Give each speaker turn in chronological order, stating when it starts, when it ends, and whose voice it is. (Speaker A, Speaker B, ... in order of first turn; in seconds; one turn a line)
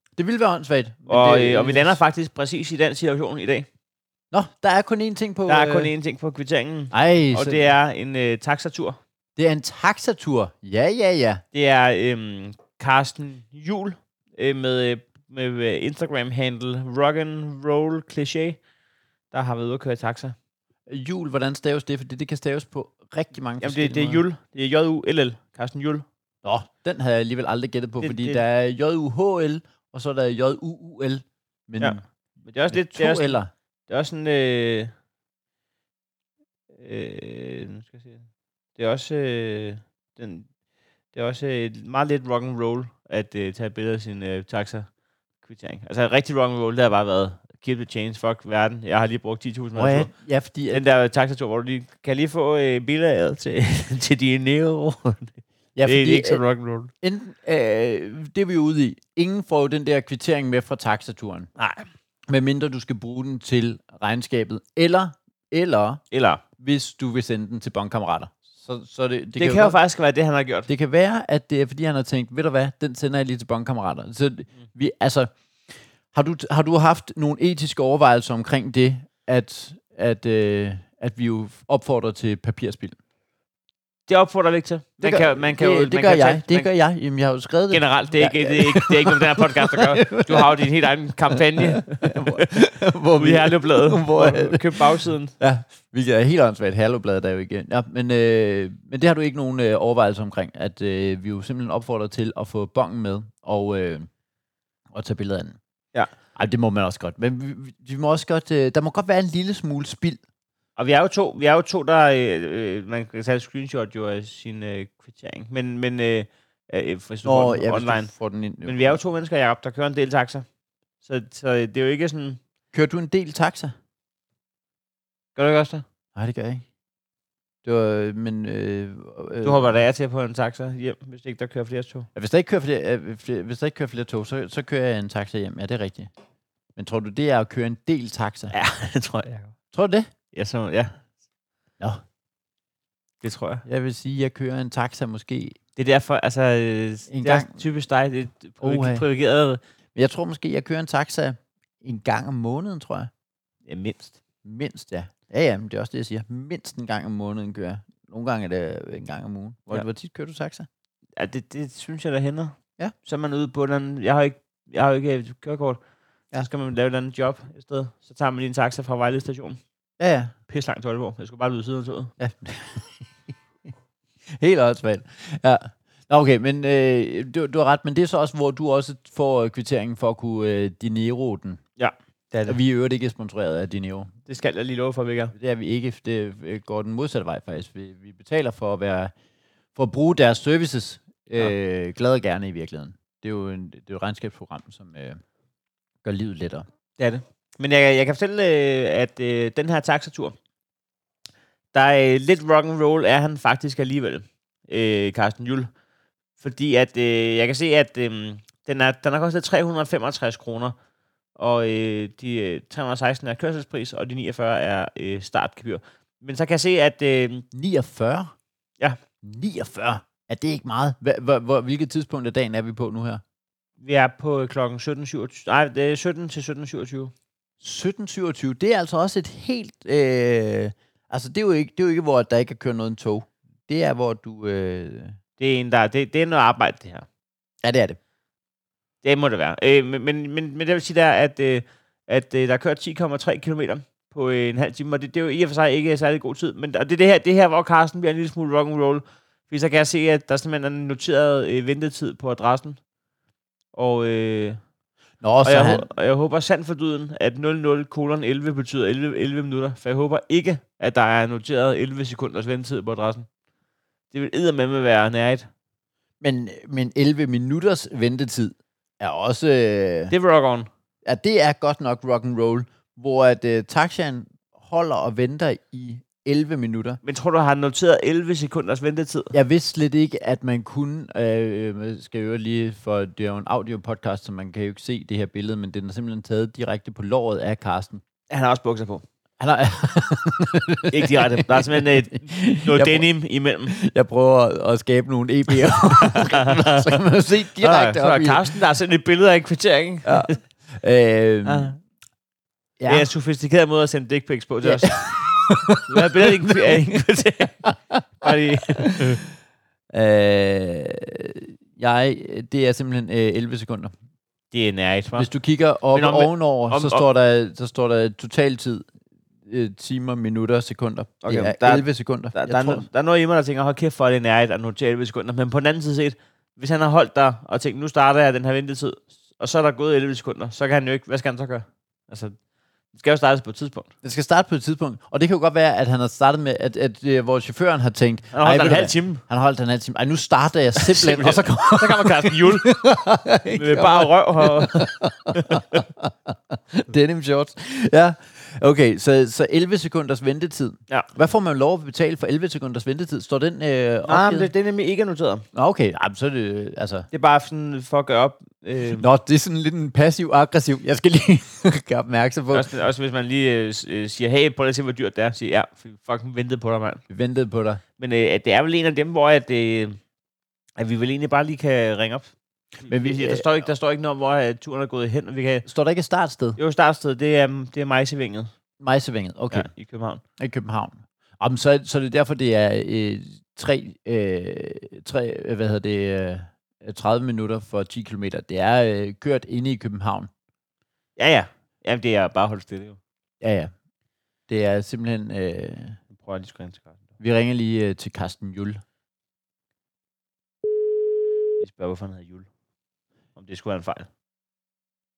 Speaker A: 0.2-2.0
Speaker B: 1.1-3.7
Speaker A: 4.3-5.9
Speaker B: 5.5-9.0
Speaker A: 6.9-7.7
Speaker A: 9.4-11.4
Speaker B: 11.5-18.6
Speaker B: 19.3-20.3
Speaker A: 20.9-24.2
Speaker B: 23.6-26.0
Speaker A: 26.4-32.0
Speaker B: 28.0-28.4
Speaker B: 31.8-34.9
Speaker A: 32.7-33.5
Speaker B: 36.7-38.2
Speaker B: 38.8-40.5
Speaker B: 41.1-44.9
Speaker B: 45.4-50.1
Speaker A: 49.7-50.8
Speaker B: 50.7-56.9
Speaker A: 55.8-56.4
Speaker A: 57.0-61.5
Speaker B: 61.6-61.9
Speaker A: 62.3-66.0
Speaker B: 66.1-66.4
Speaker A: 66.6-69.8
Speaker B: 69.3-70.7
Speaker A: 70.7-75.3
Speaker A: 76.1-83.0
Speaker B: 84.1-86.7
Speaker A: 85.0-90.7
Speaker B: 87.7-92.5
Speaker A: 91.3-104.1
Speaker B: 93.1-95.3
Speaker A: 104.9-105.6
Speaker A: 106.3-110.2
Speaker B: 110.8-118.1
Speaker A: 117.2-119.0
Speaker B: 118.6-120.4
Speaker B: 121.0-122.4
Speaker A: 122.7-123.7
Speaker B: 125.3-125.8
Speaker A: 126.1-126.6
Speaker A: 127.6-129.8
Speaker B: 129.4-132.1
Speaker A: 132.1-136.1
Speaker A: 136.8-138.5
Speaker B: 138.5-139.5
Speaker A: 139.7-140.1
Speaker B: 140.3-141.0
Speaker B: 143.2-143.6
Speaker A: 143.7-145.6
Speaker B: 145.8-149.6
Speaker A: 147.1-147.7
Speaker A: 148.6-149.0
Speaker A: 149.9-153.1
Speaker B: 153.7-154.2
Speaker A: 154.4-160.7
Speaker B: 161.2-165.8
Speaker B: 166.3-169.6
Speaker A: 170.0-170.3
Speaker B: 170.5-172.1
Speaker A: 172.2-173.1
Speaker A: 174.3-181.6
Speaker B: 181.8-182.6
Speaker A: 182.5-184.1
Speaker B: 184.3-185.3
Speaker A: 185.3-189.1
Speaker A: 189.8-195.2
Speaker A: 196.0-196.6
Speaker B: 197.0-200.3
Speaker B: 201.7-205.7
Speaker B: 206.4-210.7
Speaker B: 211.4-217.4
Speaker A: 217.5-218.3
Speaker A: 219.2-223.2
Speaker B: 223.8-227.1
Speaker A: 227.6-235.1
Speaker B: 235.4-237.1
Speaker A: 237.6-238.0
Speaker B: 239.0-252.8
Speaker B: 253.7-254.6
Speaker A: 255.2-255.8
Speaker B: 255.4-263.2
Speaker B: 264.1-265.5
Speaker A: 266.2-270.1
Speaker B: 270.1-270.7
Speaker A: 271.0-277.0
Speaker B: 277.0-279.3
Speaker A: 279.3-288.0
Speaker B: 288.3-289.0
Speaker A: 289.4-293.1
Speaker B: 290.9-293.7
Speaker A: 293.7-298.5
Speaker B: 295.8-296.9
Speaker B: 297.6-300.4
Speaker A: 300.0-301.7
Speaker B: 301.4-301.8
Speaker A: 302.8-303.1
Speaker B: 302.9-307.7
Speaker A: 304.6-306.7
Speaker B: 308.2-309.2
Speaker A: 309.9-313.9
Speaker B: 314.5-315.3
Speaker A: 315.2-318.9
Speaker B: 315.9-317.1
Speaker A: 319.4-322.9
Speaker B: 321.2-332.4
Speaker B: 332.9-333.9
Speaker A: 334.0-354.5
Speaker B: 338.3-339.2
Speaker B: 340.8-342.7
Speaker B: 343.5-345.6
Speaker B: 354.0-355.4
Speaker A: 355.5-357.1
Speaker B: 357.1-359.0
Speaker A: 358.9-362.7
Speaker B: 362.5-367.0
Speaker A: 367.1-367.8
Speaker B: 368.0-370.0
Speaker B: 370.8-372.3
Speaker A: 372.9-373.5
Speaker B: 372.9-375.6
Speaker A: 375.6-376.6
Speaker B: 376.6-378.5
Speaker A: 378.8-379.7
Speaker B: 379.5-380.2
Speaker A: 380.4-390.3
Speaker B: 391.2-393.0
Speaker A: 393.4-393.7
Speaker A: 394.5-396.0
Speaker B: 396.1-397.0
Speaker A: 397.2-398.8
Speaker B: 401.6-402.5
Speaker B: 403.4-404.1